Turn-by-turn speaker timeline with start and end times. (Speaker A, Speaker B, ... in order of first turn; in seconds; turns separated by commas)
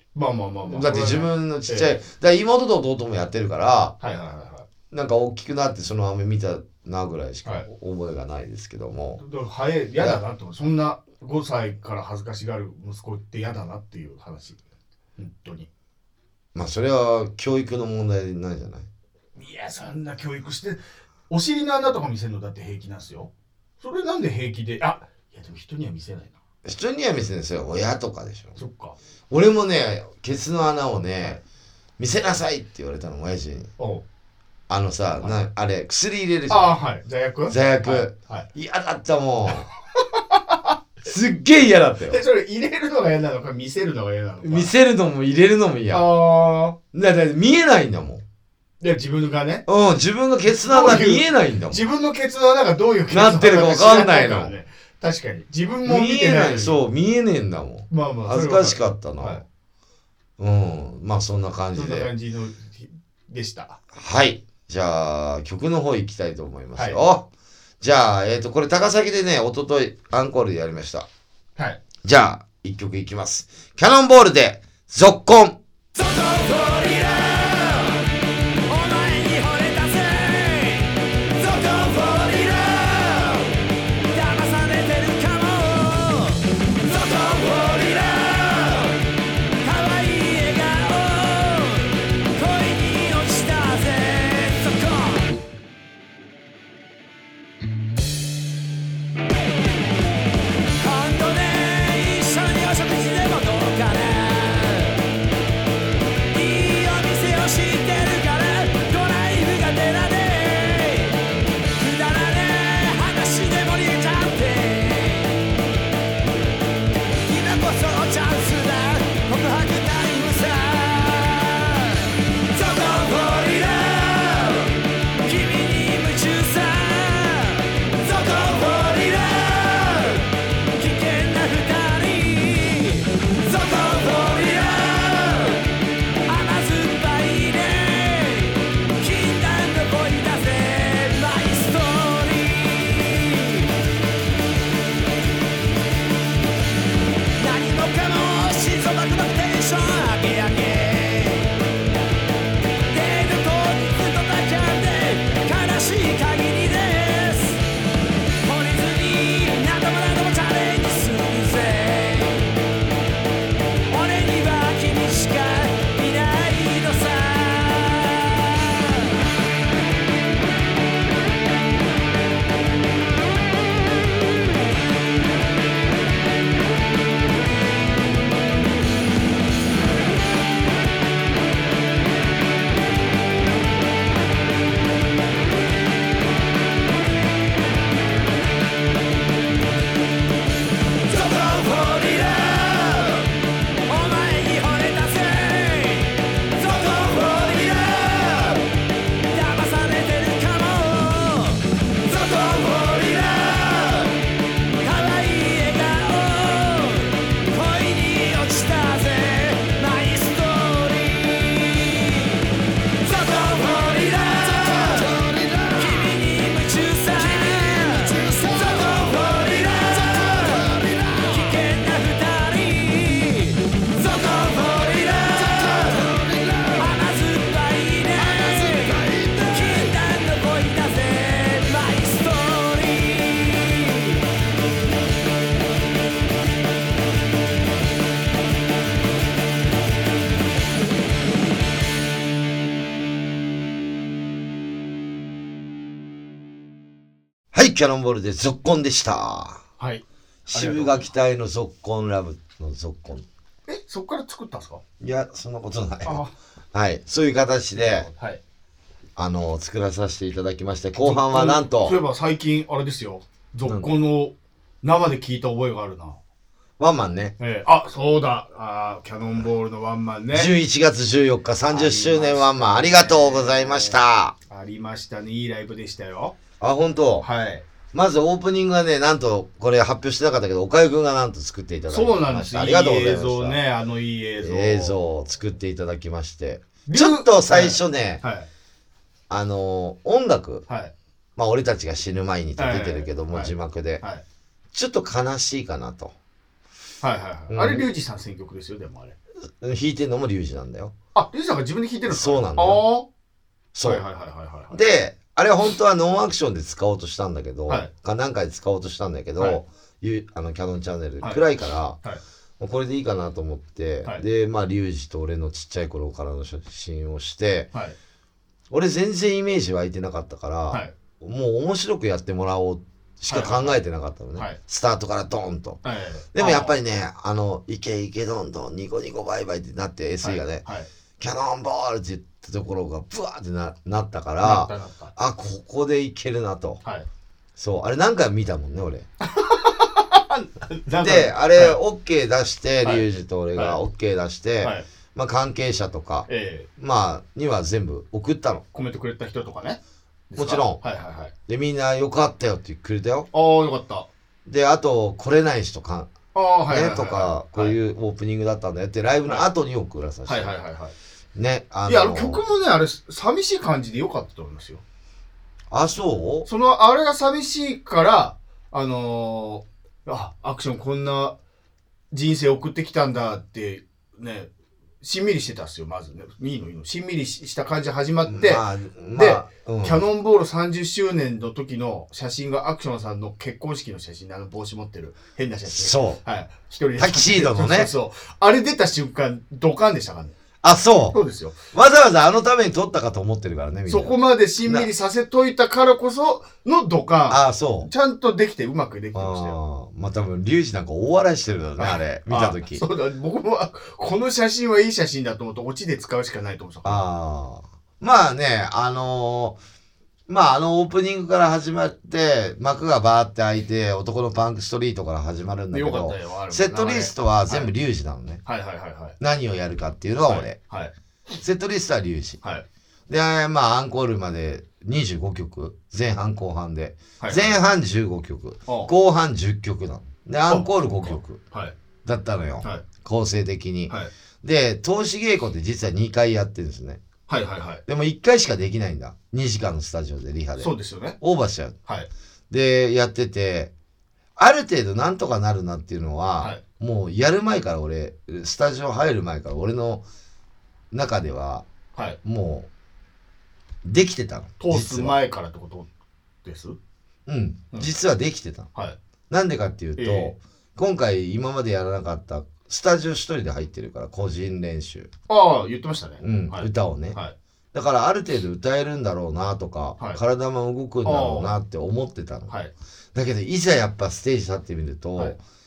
Speaker A: 0.1-2.0, Speaker B: 0.7-3.9, Speaker A: 4.0-4.7, Speaker B: 4.9-9.2, Speaker A: 9.2-14.6, Speaker A: 15.2-15.7, Speaker B: 16.5-18.9, Speaker A: 19.4-26.4, Speaker B: 26.6-28.6, Speaker A: 28.6-29.0, Speaker B: 29.3-31.4, Speaker B: 32.0-33.7, Speaker A: 33.8-34.0, Speaker B: 34.7-36.7, Speaker A: 36.5-38.5, Speaker B: 37.5-39.7, Speaker A: 40.1-40.7, Speaker B: 41.0-42.2, Speaker A: 42.1-44.7, Speaker B: 44.4-46.1, Speaker A: 45.9-46.8, Speaker B: 46.9-48.2, Speaker A: 48.8-49.6, Speaker B: 49.7-51.8, Speaker A: 50.6-56.8, Speaker B: 53.1-54.5, Speaker B: 55.8-59.4, Speaker A: 57.9-59.4, Speaker B: 60.4-62.1, Speaker A: 61.7-63.8, Speaker B: 63.9-67.3, Speaker A: 66.8-67.0, Speaker B: 67.8-71.1, Speaker B: 72.0-75.6, Speaker C: 76.0-78.0, Speaker C: 78.7-83.5, Speaker C: 84.1-89.0, Speaker C: 89.6-95.3, Speaker C: 100.8-105.0, Speaker C: 106.3-111.2, Speaker C: 111.8-115.4, Speaker C: 117.2-135.7, Speaker C: 136.3-143.7, Speaker C: 147.4-151.5, Speaker C: 152.9-157.6, Speaker C: 158.4-162.5, Speaker C: 163.9-169.1, Speaker C: 191.1-193.3, Speaker C: 193.9-198.7, Speaker C: 199.3-204.2, Speaker C: 204.8-212.4, Speaker C: 213.0-226.2, Speaker C: 226.7-234.2, Speaker B: 247.5-249.6, Speaker A: 249.8-251.1, Speaker B: 250.5-253.2, Speaker A: 253.7-254.8, Speaker B: 255.0-258.1, Speaker A: 256.0-256.3, Speaker A: 257.8-258.4, Speaker B: 259.1-262.0, Speaker A: 261.0-266.2, Speaker B: 263.6-263.9, Speaker B: 266.8-267.3, Speaker A: 267.4-270.5, Speaker B: 270.3-274.3, Speaker A: 271.7-274.0, Speaker A: 274.5-276.4, Speaker B: 276.6-277.2, Speaker A: 277.2-277.6, Speaker B: 277.9-283.6, Speaker A: 281.9-285.0, Speaker B: 284.4-288.2, Speaker A: 286.9-288.5, Speaker B: 289.3-290.6, Speaker A: 290.7-290.9, Speaker B: 291.4-294.0, Speaker A: 292.6-294.2, Speaker B: 294.7-296.1, Speaker A: 297.0-299.2, Speaker B: 297.5-297.9, Speaker B: 299.6-300.9, Speaker A: 301.1-303.1, Speaker B: 302.1-302.8, Speaker B: 303.7-304.0, Speaker A: 303.8-304.8, Speaker B: 304.7-312.0, Speaker B: 312.6-317.7, Speaker B: 318.7-325.8, Speaker A: 323.3-323.8, Speaker A: 325.8-326.7, Speaker B: 326.3-330.6, Speaker A: 330.2-330.9, Speaker B: 331.2-336.8, Speaker A: 334.4-335.1, Speaker B: 337.6-339.1, Speaker A: 339.2-341.8, Speaker B: 341.0-346.3, Speaker A: 342.8-343.8, Speaker A: 346.3-346.7, Speaker B: 346.8-348.6, Speaker A: 348.7-349.8, Speaker A: 350.3-351.3, Speaker B: 350.4-350.8, Speaker B: 351.5-353.3, Speaker A: 353.3-354.1, Speaker B: 354.4-356.1, Speaker A: 356.3-357.8, Speaker B: 356.7-360.5, Speaker A: 360.2-360.9, Speaker B: 361.3-362.4, Speaker A: 361.8-364.8, Speaker B: 365.7-366.5, Speaker A: 366.4-371.4, Speaker A: 372.1-374.5, Speaker A: 375.0-390.3, Speaker B: 378.2-380.0, Speaker B: 385.7-386.2, Speaker B: 387.0-387.9, Speaker B: 390.6-391.2, Speaker A: 391.1-391.6, Speaker B: 391.7-394.9, Speaker A: 393.9-399.6, Speaker B: 397.3-397.9, Speaker B: 399.1-402.8, Speaker A: 401.8-407.0, Speaker B: 406.8-409.6, Speaker B: 410.3-418.4, Speaker A: 415.7-417.7, Speaker A: 418.4-419.1, Speaker B: 419.2-420.6, Speaker A: 420.2-420.9, Speaker B: 421.4-422.4, Speaker B: 423.1-431.4, Speaker A: 427.2-427.6, Speaker A: 428.7-428.9, Speaker A: 430.5-431.8, Speaker B: 432.0-437.0, Speaker A: 437.3-437.8, Speaker B: 437.9-441.8, Speaker A: 440.6-441.2, Speaker B: 442.5-443.7, Speaker B: 444.4-450.0, Speaker B: 450.9-451.6, Speaker B: 452.2-452.7, Speaker B: 453.8-455.2, Speaker A: 454.6-455.9, Speaker A: 456.4-456.8, Speaker B: 457.2-458.7, Speaker B: 459.3-465.1, Speaker A: 460.0-460.3, Speaker A: 465.3-467.3, Speaker B: 466.2-467.2, Speaker B: 467.7-472.5, Speaker A: 471.0-471.6, Speaker B: 473.1-475.4